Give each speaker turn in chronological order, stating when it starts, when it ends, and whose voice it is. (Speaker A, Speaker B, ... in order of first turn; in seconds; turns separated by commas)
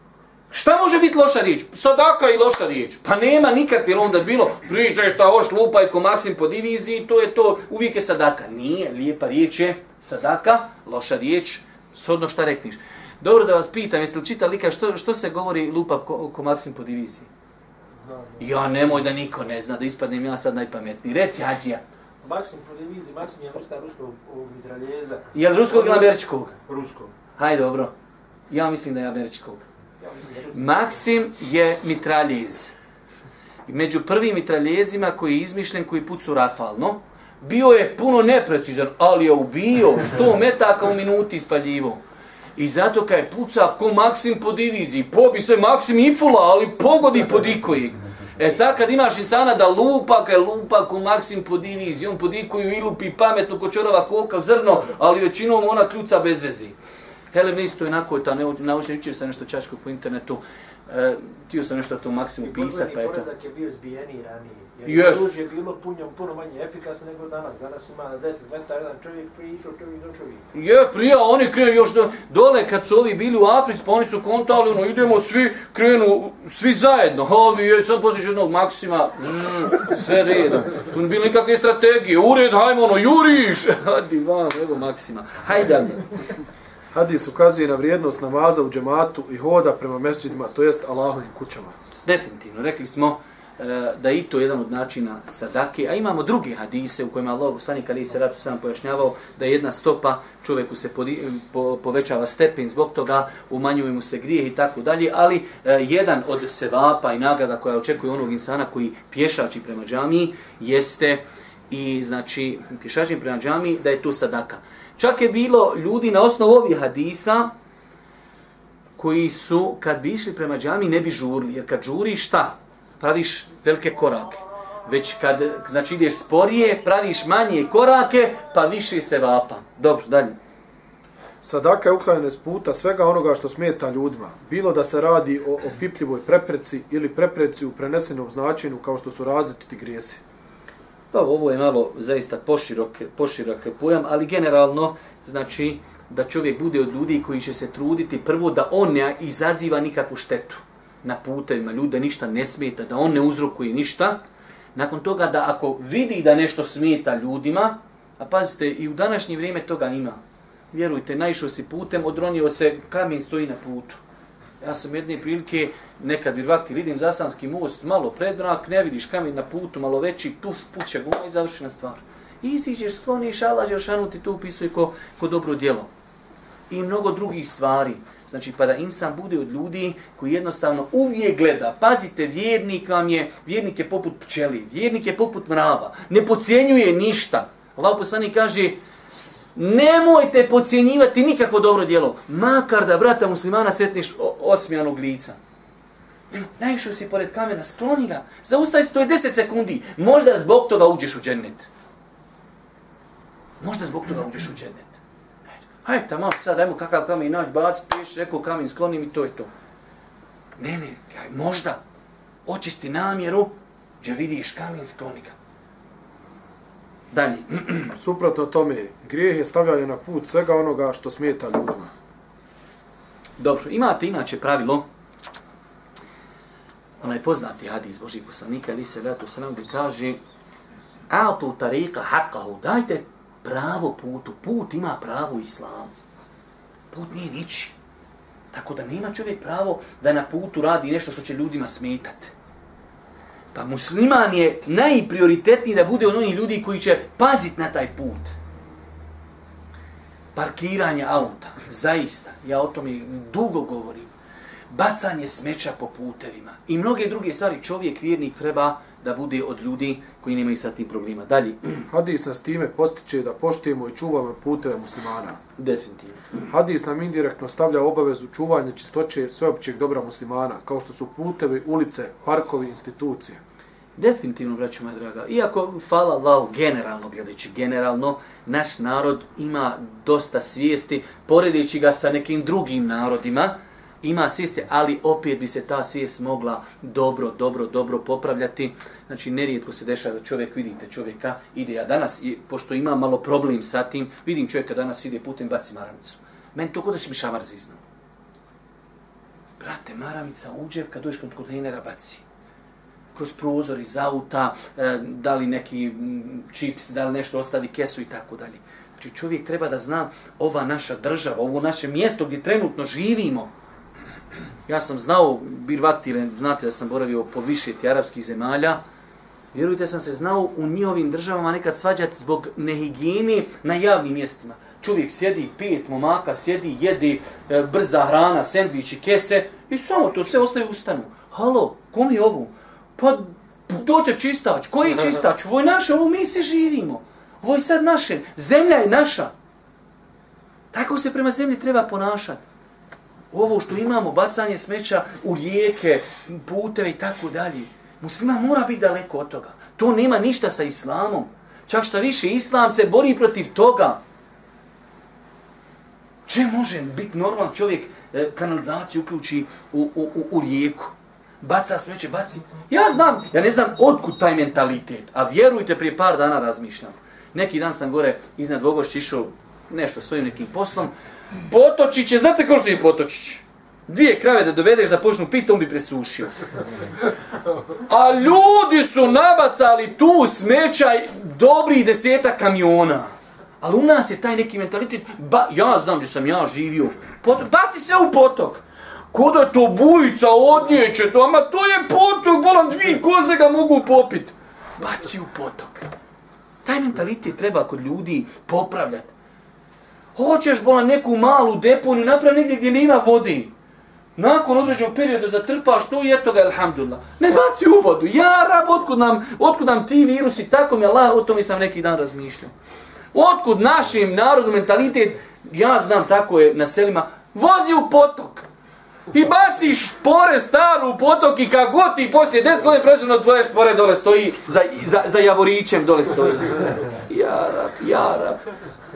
Speaker A: 0.5-17.3, Speaker B: 18.0-18.4, Speaker A: 18.4-21.8, Speaker B: 22.2-27.1, Speaker A: 25.3-26.5, Speaker A: 27.4-27.9, Speaker A: 28.5-29.6, Speaker B: 30.0-31.0, Speaker A: 30.5-32.7, Speaker A: 33.7-42.0, Speaker A: 42.5-56.7, Speaker A: 57.3-63.3, Speaker B: 62.4-70.5, Speaker A: 64.8-65.3, Speaker A: 70.5-86.1, Speaker C: 86.9-91.8, Speaker A: 92.0-117.5, Speaker A: 119.0-130.3, Speaker C: 131.4-140.2, Speaker A: 141.1-154.2, Speaker A: 154.7-160.2, Speaker A: 160.7-164.0, Speaker A: 164.6-175.9, Speaker A: 176.7-188.8, Speaker A: 189.5-195.4, Speaker A: 196.3-201.7, Speaker A: 203.6-205.0, Speaker A: 205.6-209.5, Speaker A: 210.6-211.8, Speaker A: 212.4-215.3, Speaker A: 217.1-217.9, Speaker C: 217.9-221.9, Speaker A: 223.4-224.8, Speaker A: 227.0-230.2, Speaker A: 231.1-235.9, Speaker A: 236.9-237.7, Speaker A: 238.5-242.3, Speaker A: 243.5-248.3, Speaker A: 250.3-254.1, Speaker A: 254.7-261.9, Speaker C: 261.9-265.4, Speaker A: 265.6-266.4, Speaker C: 266.5-273.4, Speaker A: 274.0-297.8, Speaker A: 299.6-302.2, Speaker A: 303.1-313.5, Speaker A: 314.6-318.8, Speaker A: 319.5-339.3, Speaker A: 340.7-342.4, Speaker A: 343.3-354.0, Speaker A: 356.3-370.9, Speaker A: 371.5-376.3, Speaker A: 377.9-395.9, Speaker A: 396.6-399.1, Speaker A: 400.1-403.5, Speaker A: 404.2-412.5, Speaker A: 413.1-418.5, Speaker A: 419.1-428.4